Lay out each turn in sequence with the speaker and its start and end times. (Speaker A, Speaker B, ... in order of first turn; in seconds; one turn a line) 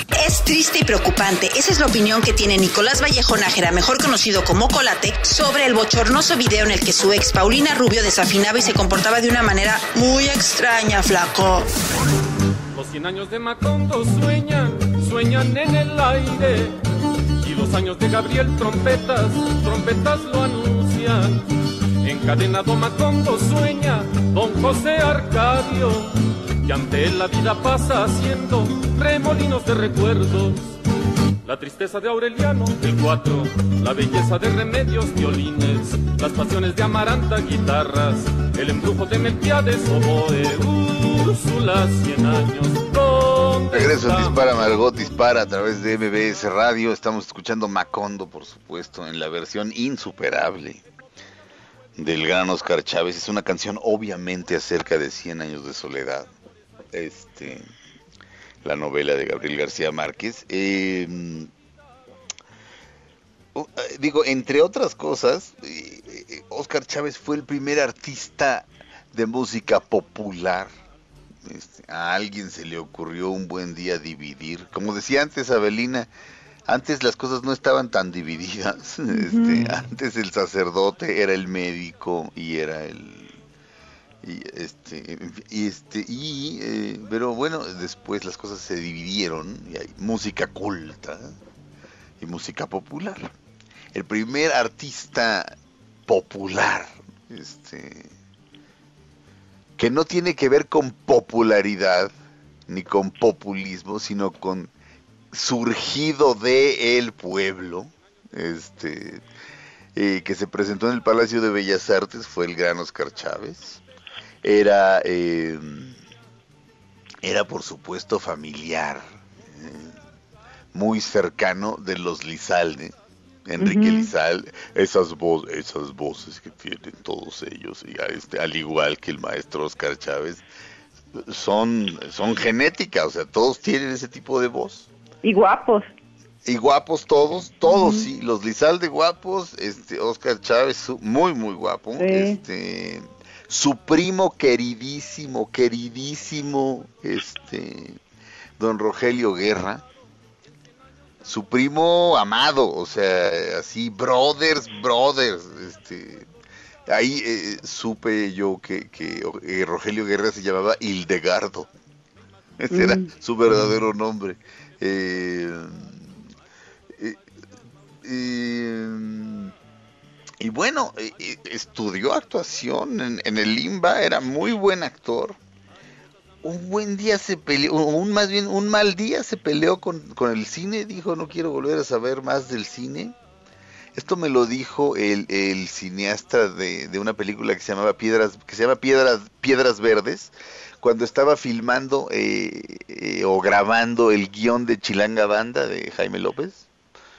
Speaker A: 0.2-11.7
Speaker B: 12.7-16.8
Speaker B: 17.4-21.5
Speaker B: 22.0-30.8
Speaker B: 31.4-44.7
Speaker C: 43.7-50.8
Speaker C: 52.0-56.3
Speaker C: 56.9-57.7
Speaker C: 58.6-61.5
Speaker C: 63.5-70.7
Speaker C: 71.4-76.1
Speaker C: 76.7-83.4
Speaker D: 79.1-79.7
Speaker C: 84.2-91.4
Speaker C: 92.2-93.3
Speaker C: 93.9-95.5
Speaker C: 96.0-98.1
Speaker C: 99.8-102.1
Speaker C: 102.7-104.7
Speaker C: 105.3-109.2
Speaker C: 109.9-113.8
Speaker C: 114.4-116.0
Speaker C: 117.2-120.0
Speaker C: 120.7-122.9
Speaker C: 123.5-130.4
Speaker D: 123.6-124.1
Speaker C: 131.1-134.9
Speaker D: 135.2-135.9
Speaker C: 136.4-148.0
Speaker D: 137.7-138.1
Speaker D: 142.0-142.4
Speaker C: 148.6-149.8
Speaker C: 151.2-156.3
Speaker C: 156.9-161.7
Speaker C: 162.6-166.1
Speaker D: 162.7-163.1
Speaker C: 166.9-167.2
Speaker C: 168.0-169.5
Speaker C: 170.4-175.4
Speaker C: 176.4-183.2
Speaker C: 183.9-196.7